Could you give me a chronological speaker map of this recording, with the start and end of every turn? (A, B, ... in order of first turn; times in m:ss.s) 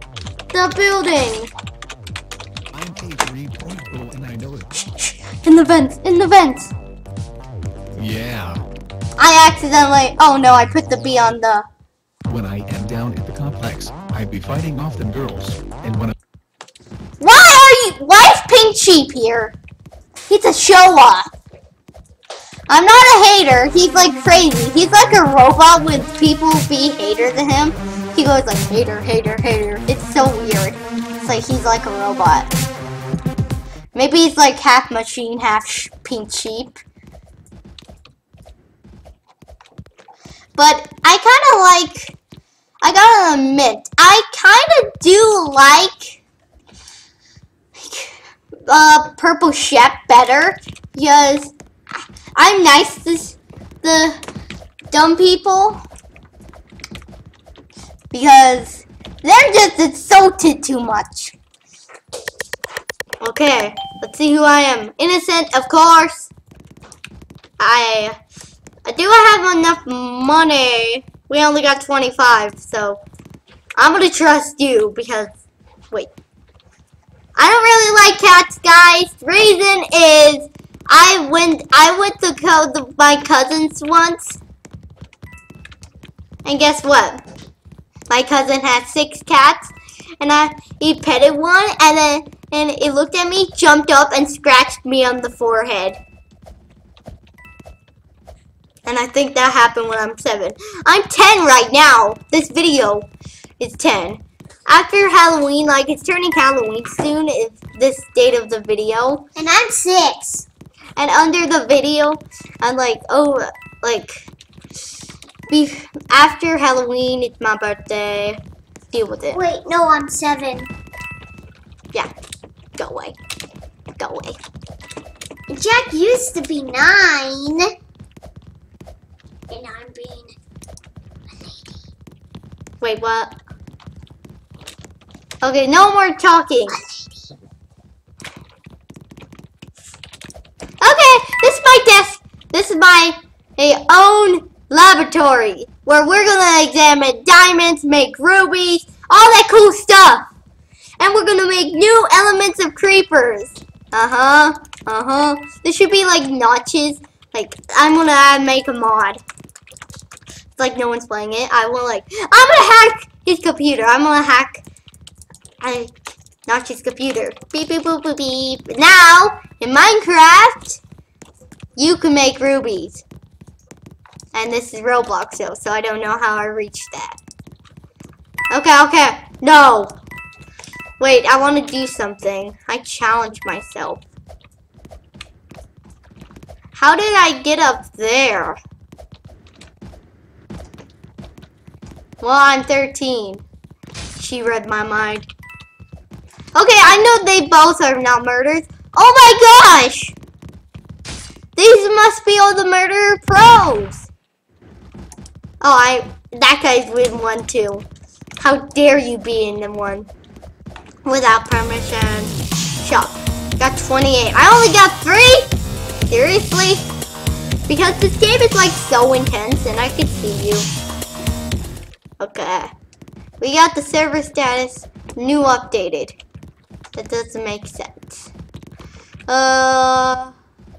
0:00.5-0:01.5 A
0:02.7-0:04.7 B
0:04.8-0:06.7 A
0:08.0-0:08.6 B
0:09.2-0:11.7 A
0:12.3-0:16.2 B
0:17.2-0:19.6 A
0:20.3-0:21.3 A
0:22.7-0:32.5 A
0:33.9-0:36.8 A
0:40.6-0:42.2 A
0:42.8-0:46.2 A
0:47.8-0:48.1 A
0:48.7-0:51.5 A
0:52.4-0:54.2 A
0:54.9-0:55.8 A
0:58.1-1:01.3 A
1:03.2-1:06.3 A
1:07.6-1:08.2 A
1:08.8-1:13.0 A
1:13.8-1:15.3 A
1:17.4-1:24.4 A
1:26.4-1:27.2 A
1:28.1-1:36.0 A
1:38.8-1:43.1 A
1:43.6-1:49.3 A
1:49.4-1:50.5 C
1:51.0-1:54.3 A
1:55.5-1:59.4 A
1:59.3-2:00.7 C
2:02.8-2:03.2 A
2:04.0-2:04.4 A
2:05.5-2:07.7 C
2:09.5-2:10.4 C
2:11.3-2:11.8 C
2:12.8-2:13.4 A
2:15.4-2:16.8 A
2:16.7-2:17.3 C
2:20.8-2:30.3 A
2:31.0-2:39.2 A
2:40.6-2:44.6 A
2:45.6-2:50.8 A
2:51.8-2:53.0 A
2:54.3-2:57.2 A
2:58.5-2:59.9 A
3:01.0-3:04.0 A
3:06.7-3:08.6 A
3:12.2-3:13.4 A
3:14.2-3:15.3 A
3:16.6-3:20.2 A
3:21.6-3:24.1 A
3:25.6-3:27.9 A
3:28.4-3:30.1 A
3:31.0-3:35.5 A
3:36.1-3:36.9 A
3:37.7-3:40.7 A
3:42.2-3:42.7 A
3:43.4-3:46.2 A
3:47.0-3:48.3 A
3:49.3-3:50.3 A